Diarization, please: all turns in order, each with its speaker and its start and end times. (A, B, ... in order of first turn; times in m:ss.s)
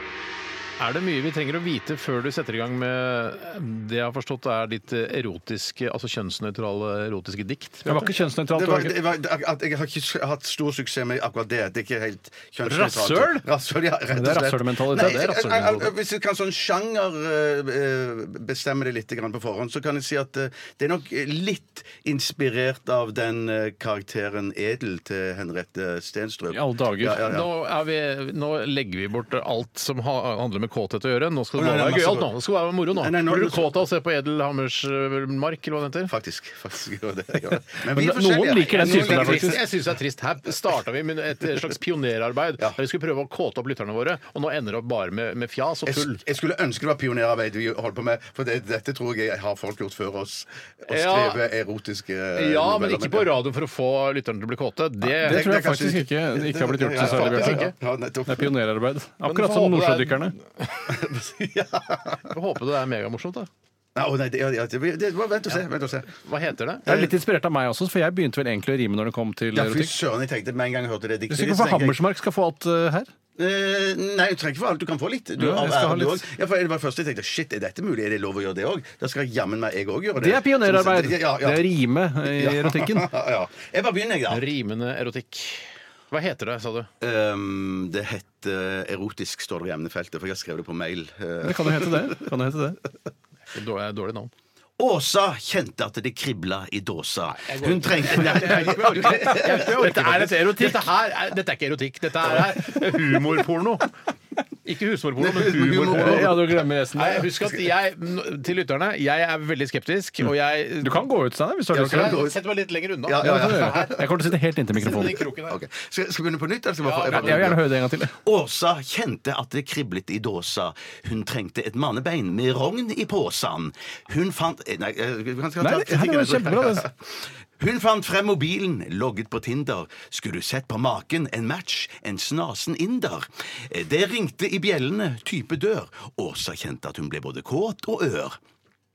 0:00.8-0:08.1 A
0:07.9-0:09.0 B
0:08.5-0:27.5 C
0:12.7-0:13.4 B
0:14.1-0:15.9 B
0:26.5-0:27.3 B
0:27.2-0:36.1 A
0:31.5-0:32.3 C
0:33.0-0:33.7 C
0:36.1-0:39.6 C
0:37.8-0:39.6 B
0:38.8-0:46.2 A
0:45.8-0:53.3 C
0:50.9-0:51.4 A
0:52.4-0:55.4 A
0:55.2-0:57.7 B
0:55.2-0:58.5 C
0:57.0-0:57.7 A
0:58.3-1:00.3 B
0:59.2-1:00.9 A
1:00.9-1:02.2 C
1:02.3-1:03.5 A
1:04.0-1:06.1 C
1:06.2-1:07.1 A
1:06.9-1:09.9 B
1:09.5-1:12.0 C
1:11.3-1:13.1 B
1:13.4-1:21.6 C
1:15.4-1:16.2 B
1:20.2-1:23.1 B
1:22.2-1:24.4 C
1:24.3-1:26.9 A
1:27.0-1:32.2 C
1:31.4-1:32.8 B
1:33.5-1:34.3 A
1:34.8-1:40.0 C
1:37.4-1:43.8 A
1:38.6-1:40.9 B
1:42.3-1:43.7 B
1:44.6-1:46.4 A
1:45.2-1:46.5 C
1:45.9-1:47.3 B
1:47.0-1:51.1 A
1:50.8-1:52.2 B
1:51.7-1:52.4 C
1:51.7-1:55.6 A
1:53.0-1:57.6 C
1:53.2-1:55.2 B
1:56.8-1:57.6 A
1:57.0-1:58.2 B
1:58.2-2:18.4 C
2:05.6-2:06.9 B